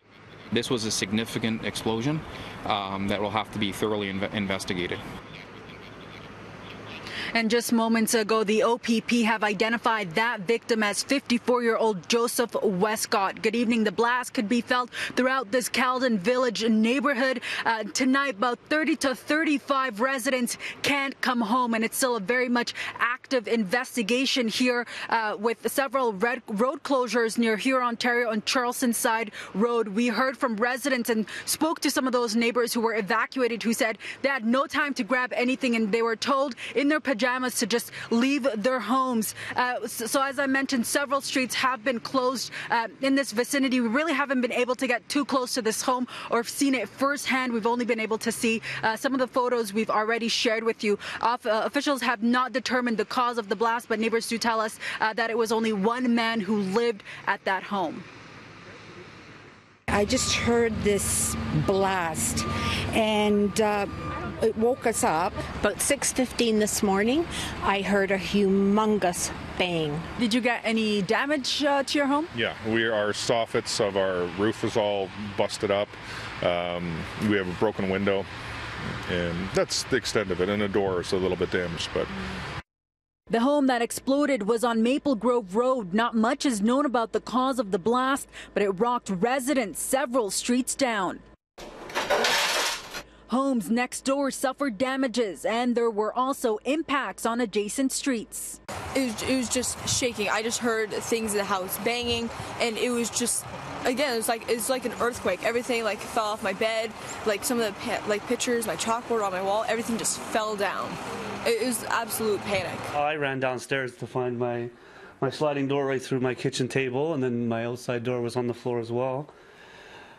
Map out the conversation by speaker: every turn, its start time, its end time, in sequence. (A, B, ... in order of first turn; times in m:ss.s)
0:00.5-0:05.0 A
0:07.3-0:58.0 B
1:00.0-1:02.4 C
1:05.4-1:10.0 C
1:10.2-1:12.3 B
1:12.3-1:18.2 D
1:19.1-1:22.1 D
1:23.3-1:31.2 B
1:33.3-1:38.6 B
1:38.9-1:52.9 E
1:52.9-1:59.3 F